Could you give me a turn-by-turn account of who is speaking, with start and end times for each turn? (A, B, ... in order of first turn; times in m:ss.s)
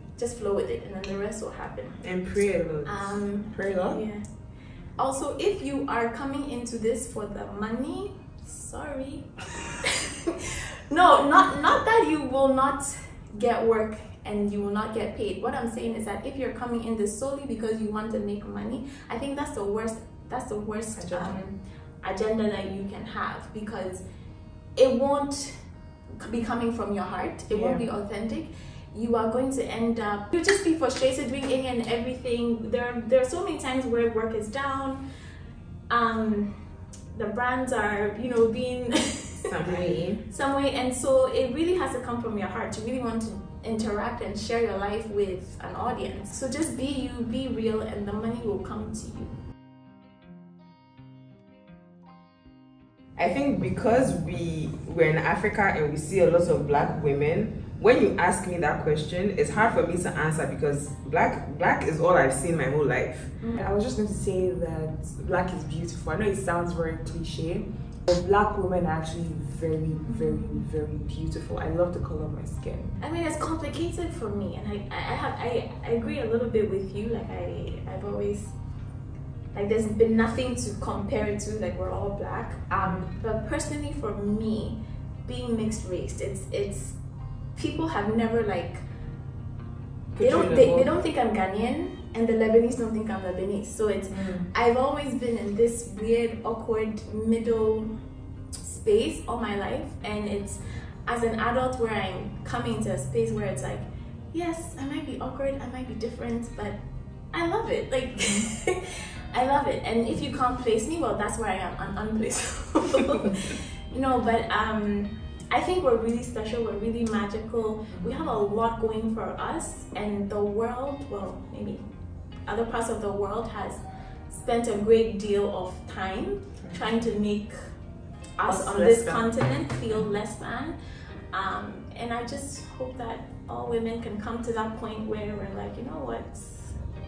0:00.2-0:02.0 A
0:02.0-0:03.2 B
0:02.8-0:04.2 A
0:03.5-0:04.0 C
0:05.0-0:24.0 A
0:21.0-0:21.3 C
0:24.8-0:25.5 A
0:26.2-0:35.0 A
0:27.5-0:27.8 C
0:35.9-0:36.5 A
0:37.1-0:49.3 A
0:39.5-0:40.2 B
0:53.2-1:03.3 B
1:03.4-1:03.7 A
1:03.6-1:13.0 C
1:10.0-1:10.6 A
1:13.0-1:18.5 A
1:19.5-1:27.0 A
1:27.5-1:28.8 A
1:30.2-1:30.9 B
1:30.2-1:37.9 A
1:34.1-1:34.5 C
1:38.6-1:46.8 A
1:47.3-2:01.8 A
1:48.2-1:48.5 C
2:02.4-2:07.7 A
2:08.4-2:10.8 A
2:08.5-2:09.2 C
2:11.3-2:16.7 A